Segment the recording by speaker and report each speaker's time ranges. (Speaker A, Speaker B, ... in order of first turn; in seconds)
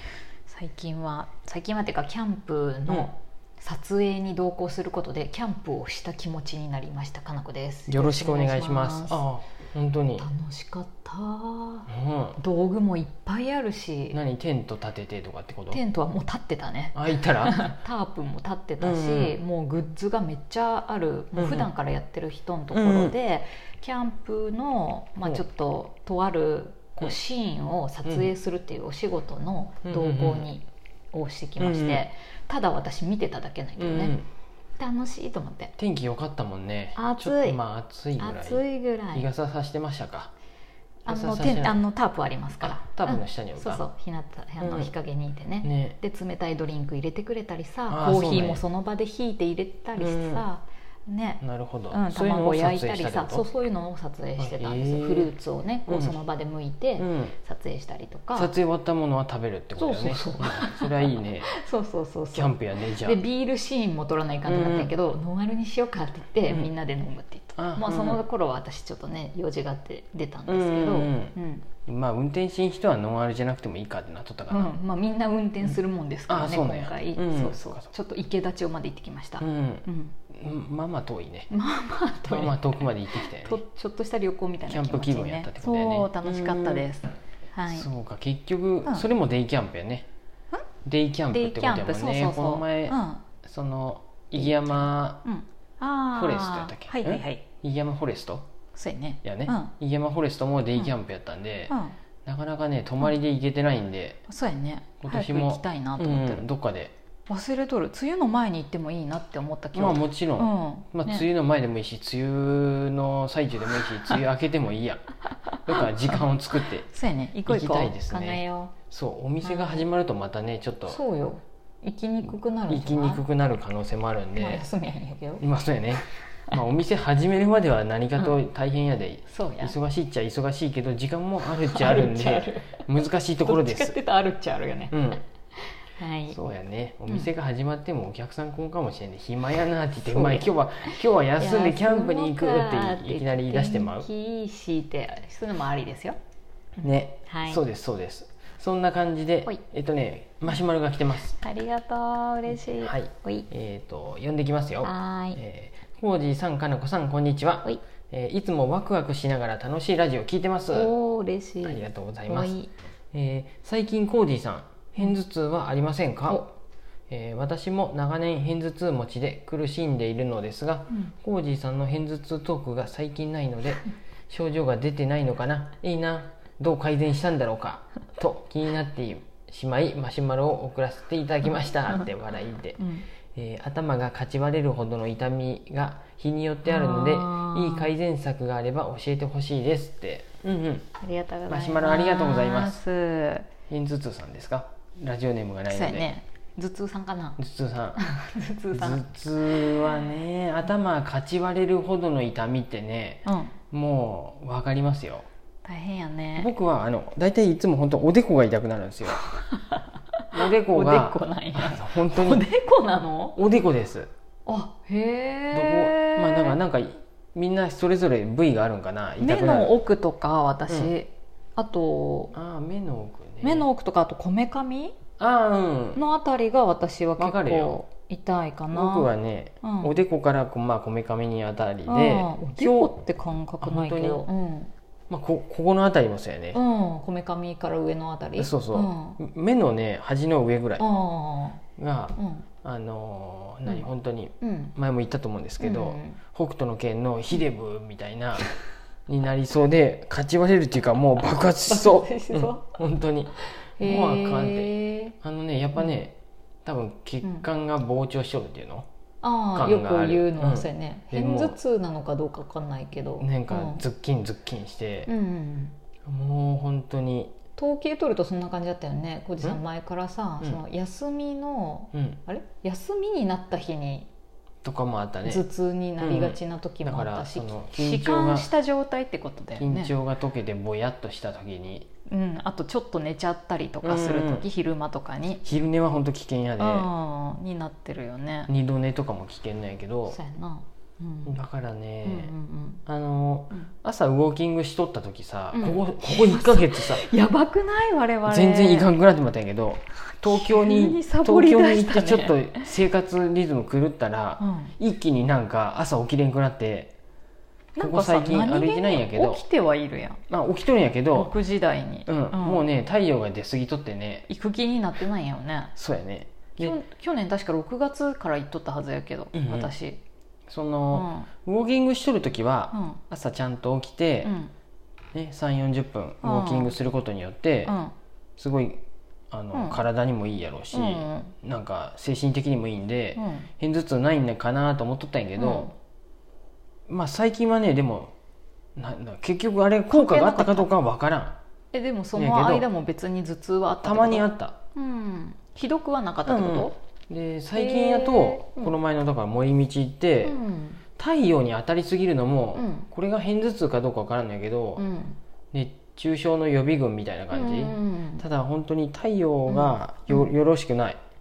Speaker A: 0.5-9.2, 10.2-14.2, 15.7-34.2, 34.8-35.7, 36.9-37.6, 38.2-39.2, 41.0-58.5, 59.8-71.7, 74.5-80.2, 81.5-87.9, 91.3-93.2, 94.3-97.4, 98.7-99.7, 101.7-102.0, 104.3-106.5, 107.3-111.3, 115.7-116.2, 116.8-118.7, 119.4-119.8, 120.9-123.2, 124.3-125.4, 129.3-129.7, 131.6-135.0, 135.5-136.4, 140.1-146.2, 146.8-147.6, 151.3-153.4, 154.8-155.4, 160.7-162.7, 186.6-187.9, 191.0-193.5, 195.7-197.4, 197.9-200.1, 203.2-203.5, 205.6-206.5, 209.2-213.4, 214.4-216.6, 219.2-222.3, 223.4-225.0, 225.9-229.1, 229.6-229.9, 231.9-234.7, 236.5-239.2, 240.8-241.6, 242.2-242.4, 244.4-244.7, 245.6-246.2, 251.7-252.7, 253.4-255.1, 257.2-257.5, 259.2-263.8, 265.1-265.8, 267.6-274.1, 275.2-279.9, 282.1-285.4, 286.6-288.5, 290.1-291.4, 292.0-292.8, 295.5-298.9, 300.2-302.7, 304.4-304.7, 307.7-310.2, 311.1-312.6, 314.3-315.7, 316.6-320.0, 320.9-321.3, 322.7-323.0, 324.2-324.5, 326.2-326.7, 327.6-327.9, 329.5-329.8, 330.7-331.3, 333.1-333.5, 335.4-335.7, 339.9-340.7, 341.7-346.7, 347.5-348.8, 350.2-350.8, 352.5-352.9, 354.8-355.2, 357.3-358.2, 359.5-360.3
Speaker B: 7.9-10.3, 11.9-12.4, 14.1-15.8, 16.9-17.8, 18.8-19.4, 21.3-21.7, 22.7-23.1, 28.0-28.3, 29.8-30.5, 31.6-32.0, 33.8-34.3, 35.8-40.3, 41.1-41.8, 42.6-43.8, 44.6-44.9, 45.6-46.0, 47.9-48.6, 50.0-50.5, 51.4-53.5, 54.4-55.3, 55.9-56.1, 57.0-57.3, 58.3-61.5, 62.3-63.2, 64.5-64.9, 67.5-68.2, 70.5-71.3, 71.8-74.7, 76.3-77.9, 79.4-81.5, 82.2-83.6, 84.7-86.8, 87.7-90.0, 90.8-95.2, 96.1-98.4, 99.2-104.2, 105.0-106.9, 109.7-115.1, 115.7-116.9, 117.5-121.0, 122.7-124.7, 125.4-134.0, 134.9-135.2, 136.3-144.1, 146.8-151.4, 152.7-160.9, 161.6-162.6, 163.1-166.5, 167.1-190.9, 191.5-192.8, 193.7-196.1, 197.4-198.0, 198.7-205.3, 206.3-209.2, 210.3-212.4, 213.3-214.1, 215.5-219.7, 220.7-220.9, 222.3-223.7, 225.2-226.0, 227.2-227.8, 228.7-233.0, 233.6-234.2, 235.1-236.6, 238.4-240.8, 241.8-248.5, 249.1-258.9, 259.5-261.6, 263.2-265.1, 266.1-267.3, 271.9-272.2, 274.6-275.4, 276.0-278.5, 279.6-281.9, 283.8-284.4, 285.4-286.9, 288.5-290.2, 291.2-292.3, 292.9-297.0, 298.3-306.9, 307.8-309.4, 310.3-311.3, 312.1-314.2, 315.8-316.8, 319.3-319.7, 320.5-324.3, 325.1-327.7, 328.4-335.7, 336.9-338.1, 338.8-341.4, 342.1-342.6, 343.8-344.6, 346.2-350.3, 351.0-354.8, 355.5-361.0